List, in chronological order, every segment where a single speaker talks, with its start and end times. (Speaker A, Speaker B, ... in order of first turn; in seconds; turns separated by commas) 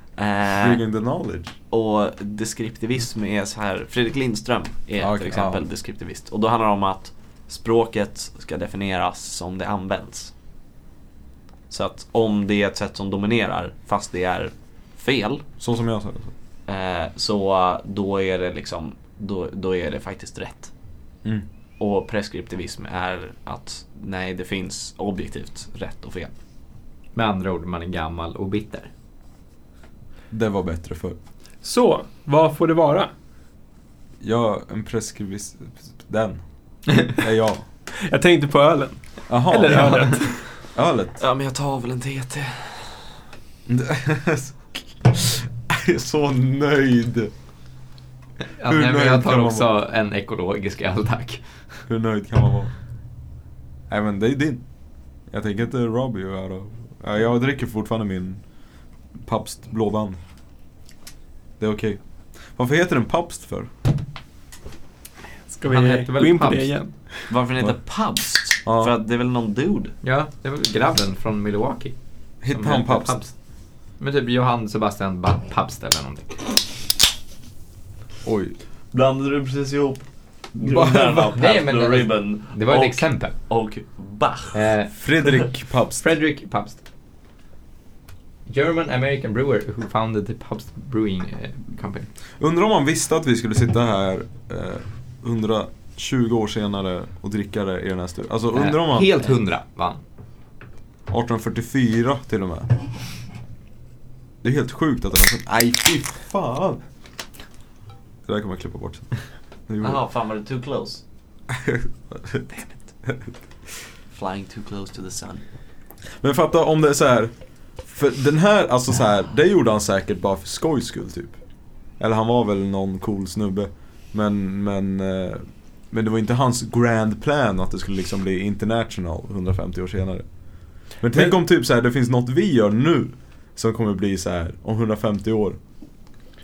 Speaker A: 0.2-0.8, Speaker B: 0.6-1.6, Speaker A: 1.7-10.3, Speaker B: 5.0-5.6, Speaker A: 11.7-15.4, Speaker B: 15.6-16.3, Speaker A: 16.7-20.7, Speaker A: 21.8-26.3, Speaker C: 27.1-28.9, Speaker B: 30.3-31.2, Speaker D: 31.6-33.1, Speaker B: 34.2-36.4, Speaker B: 37.0-37.6, Speaker D: 38.0-40.5, Speaker B: 39.3-40.2, Speaker C: 39.8-40.0, Speaker B: 40.7-41.2, Speaker A: 41.2-43.0, Speaker B: 43.7-47.3, Speaker C: 48.6-51.4, Speaker B: 48.6-49.7, Speaker B: 51.9-52.7, Speaker B: 53.9-54.6, Speaker B: 55.3-58.4, Speaker B: 59.2-60.2, Speaker B: 61.6-62.0, Speaker B: 62.5-63.7, Speaker D: 65.5-67.3, Speaker C: 65.7-66.7, Speaker A: 67.3-69.9, Speaker B: 68.7-68.9, Speaker C: 70.0-71.9, Speaker B: 72.4-73.2, Speaker C: 72.5-73.3, Speaker C: 74.0-76.4, Speaker B: 78.2-78.5, Speaker A: 78.9-80.0, Speaker A: 80.6-84.7, Speaker B: 80.6-81.3, Speaker C: 81.2-83.3, Speaker C: 84.5-85.0, Speaker B: 84.9-86.0, Speaker C: 86.0-86.8, Speaker C: 88.5-92.1, Speaker B: 92.4-99.4, Speaker C: 98.5-100.0, Speaker B: 101.1-102.7, Speaker B: 104.4-106.8, Speaker B: 108.3-109.1, Speaker B: 109.7-110.0, Speaker A: 109.8-111.0, Speaker B: 111.5-112.5, Speaker B: 113.0-113.3, Speaker A: 114.1-115.4, Speaker B: 116.2-121.4, Speaker B: 122.0-130.2, Speaker B: 131.0-135.6